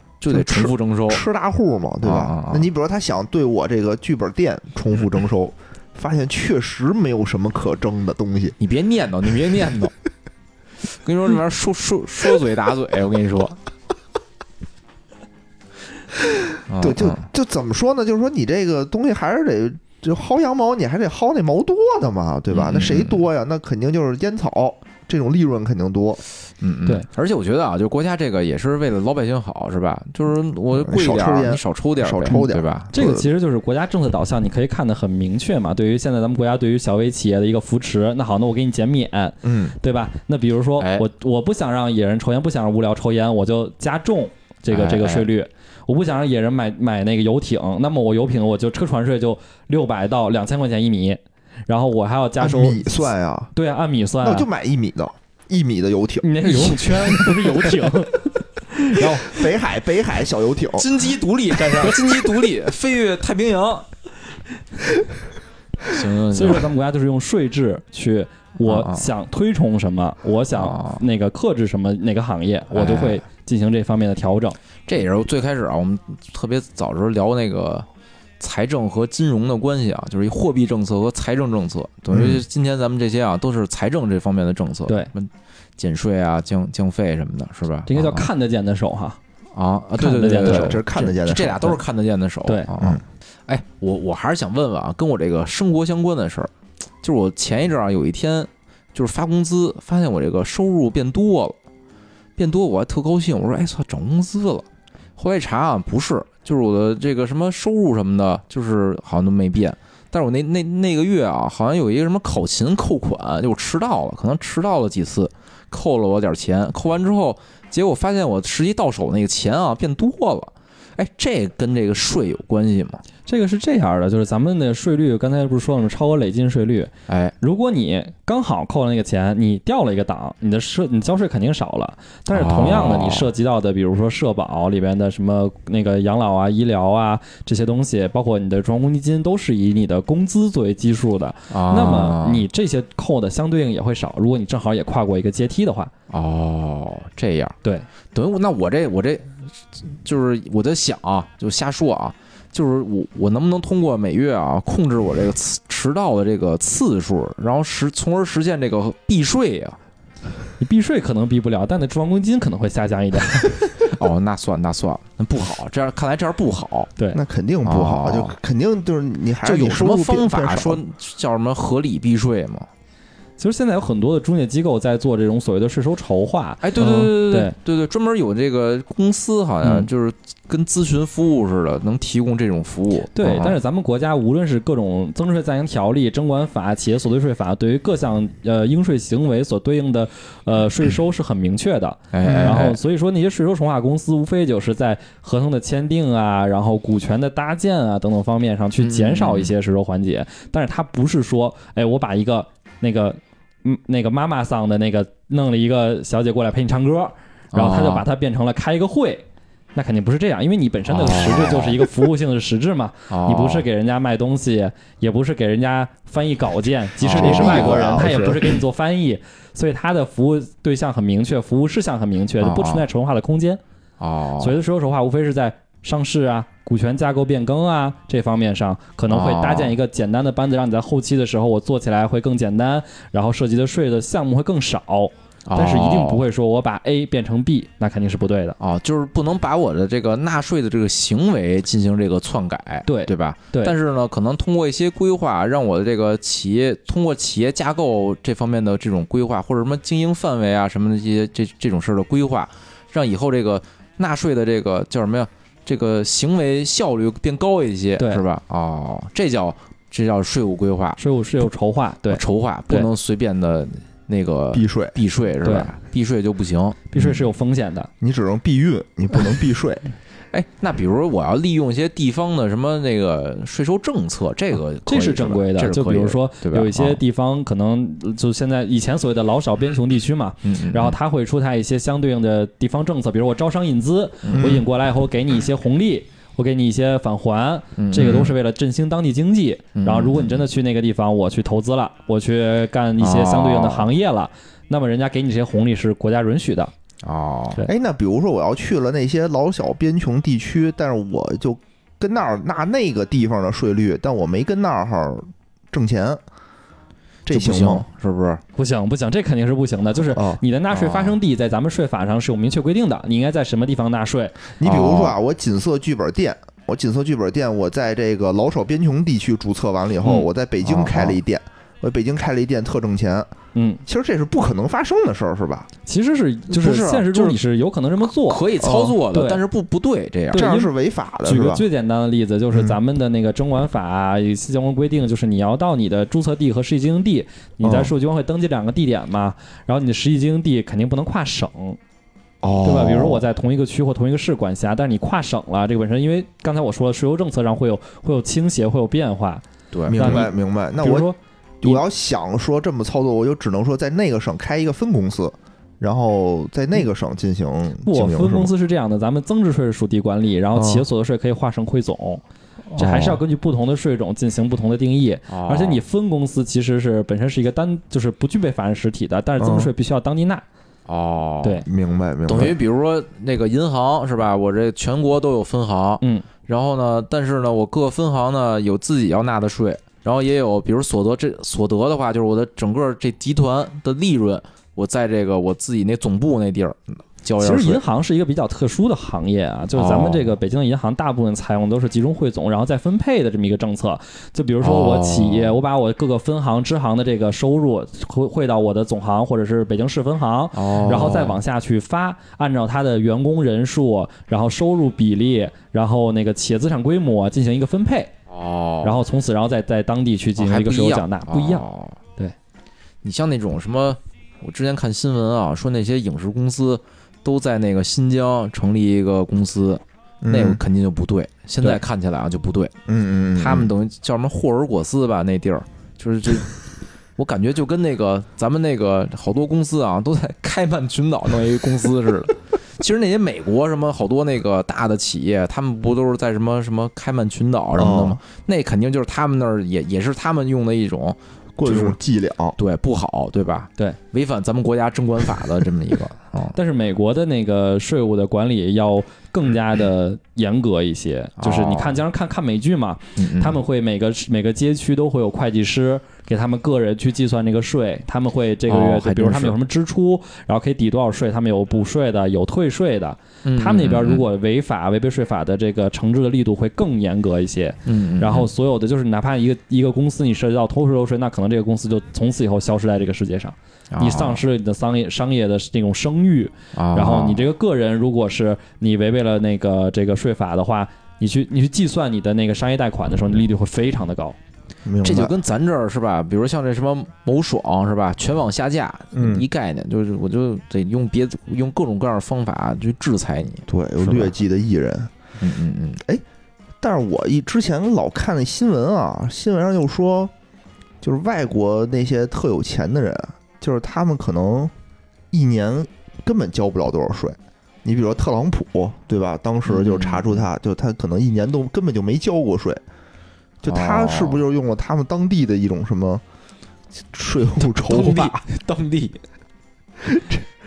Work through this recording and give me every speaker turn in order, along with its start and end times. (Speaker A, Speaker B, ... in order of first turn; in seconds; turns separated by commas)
Speaker A: 0.2-1.2, Speaker B: 0.3-8.6, Speaker A: 2.0-2.7, Speaker A: 8.6-9.9, Speaker A: 10.9-13.6, Speaker A: 16.7-17.2, Speaker B: 16.8-26.2, Speaker A: 22.5-23.2, Speaker A: 26.6-32.9, Speaker B: 30.7-33.3, Speaker C: 32.3-54.5, Speaker B: 39.4-39.8, Speaker A: 40.8-41.1, Speaker A: 44.7-45.3, Speaker B: 52.4-53.5, Speaker B: 54.2-57.2, Speaker C: 56.2-59.4, Speaker B: 59.0-60.9, Speaker A: 60.8-63.9, Speaker A: 65.9-66.7, Speaker C: 66.3-74.6, Speaker A: 68.7-69.1, Speaker A: 70.5-71.0, Speaker A: 72.7-73.2, Speaker A: 74.9-77.9, Speaker A: 78.4-88.3, Speaker B: 82.1-82.4, Speaker C: 87.9-89.2, Speaker A: 89.5-96.5, Speaker C: 90.0-90.8, Speaker B: 90.4-91.8, Speaker A: 97.0-101.6, Speaker A: 102.4-104.7, Speaker A: 105.2-123.0, Speaker C: 123.3-145.9, Speaker A: 127.1-127.3, Speaker A: 132.3-133.3, Speaker A: 141.5-142.5, Speaker A: 146.1-147.6, Speaker A: 148.1-159.8, Speaker C: 160.6-163.9, Speaker A: 163.9-166.9, Speaker B: 167.1-170.8, Speaker A: 167.7-168.4, Speaker A: 169.4-172.7, Speaker C: 173.4-177.6, Speaker A: 176.6-183.6, Speaker B: 176.8-177.1, Speaker C: 183.2-223.6, Speaker A: 192.1-192.8, Speaker B: 192.2-192.6, Speaker A: 198.8-199.5, Speaker A: 207.5-208.1, Speaker A: 210.9-211.9, Speaker A: 213.1-213.7, Speaker A: 217.0-217.8, Speaker B: 217.1-218.6, Speaker A: 222.4-222.8, Speaker A: 224.0-224.6, Speaker C: 224.4-238.6, Speaker A: 229.1-229.8, Speaker A: 235.5-236.2, Speaker A: 238.6-261.0, Speaker C: 242.9-243.8, Speaker C: 258.0-258.2, Speaker C: 261.0-262.9, Speaker A: 262.1-267.0, Speaker B: 264.5-265.0, Speaker C: 265.4-265.7, Speaker C: 266.9-267.9, Speaker B: 268.0-269.9, Speaker A: 270.3-277.0, Speaker C: 274.9-296.7, Speaker A: 280.4-281.0, Speaker A: 284.2-284.6, Speaker B: 284.4-284.6, Speaker A: 287.8-288.4, Speaker A: 289.8-290.4, Speaker A: 293.0-293.9, Speaker A: 297.0-297.6, Speaker B: 297.7-306.2, Speaker B: 307.3-307.9, Speaker A: 307.3-308.4, Speaker C: 308.6-314.4, Speaker B: 310.1-310.4, Speaker A: 310.7-311.2, Speaker B: 314.6-323.3, Speaker A: 314.6-315.2, Speaker A: 320.0-321.2, Speaker C: 323.6-323.8, Speaker B: 323.9-325.7, Speaker C: 325.9-328.4, Speaker A: 326.5-327.4, Speaker A: 328.0-330.5, Speaker B: 328.6-329.0, Speaker C: 329.1-329.4, Speaker B: 330.3-331.6, Speaker C: 330.3-330.7, Speaker C: 331.2-341.8, Speaker B: 332.5-332.8, Speaker B: 337.6-337.9, Speaker B: 342.4-343.2, Speaker C: 342.6-349.4, Speaker A: 349.7-350.3, Speaker B: 349.9-351.1, Speaker C: 350.0-351.8, Speaker B: 351.6-358.5, Speaker C: 357.9-362.2, Speaker B: 360.6-360.9, Speaker B: 362.7-363.2, Speaker C: 362.8-370.4, Speaker A: 365.3-365.8, Speaker B: 369.4-369.7, Speaker A: 370.9-371.6, Speaker B: 371.7-372.6, Speaker A: 372.3-387.8, Speaker C: 376.0-376.3, Speaker C: 387.4-408.1, Speaker A: 389.8-390.3, Speaker A: 394.6-395.6, Speaker A: 400.6-401.4, Speaker A: 408.3-409.0, Speaker C: 408.8-411.6, Speaker A: 410.4-412.0, Speaker A: 413.0-422.7, Speaker B: 420.2-420.6, Speaker B: 422.9-423.7, Speaker A: 423.4-426.6, Speaker A: 427.2-442.0, Speaker B: 437.8-438.2, Speaker B: 441.6-442.6, Speaker A: 442.6-446.6, Speaker C: 446.5-484.4, Speaker A: 451.4-452.0, Speaker A: 453.2-453.6, Speaker A: 458.7-459.6, Speaker A: 463.4-464.3, Speaker A: 467.9-468.5, Speaker A: 473.9-474.4, Speaker A: 476.8-477.4, Speaker B: 484.9-485.4, Speaker A: 485.0-494.3, Speaker B: 489.1-489.5, Speaker B: 493.7-495.1, Speaker A: 495.4-496.0, Speaker B: 496.8-500.3, Speaker B: 501.0-504.7, Speaker B: 505.3-512.8, Speaker A: 509.7-510.4, Speaker B: 513.6-516.2, Speaker A: 513.7-514.4, Speaker B: 517.1-518.4, Speaker A: 517.6-519.2, Speaker B: 520.1-520.4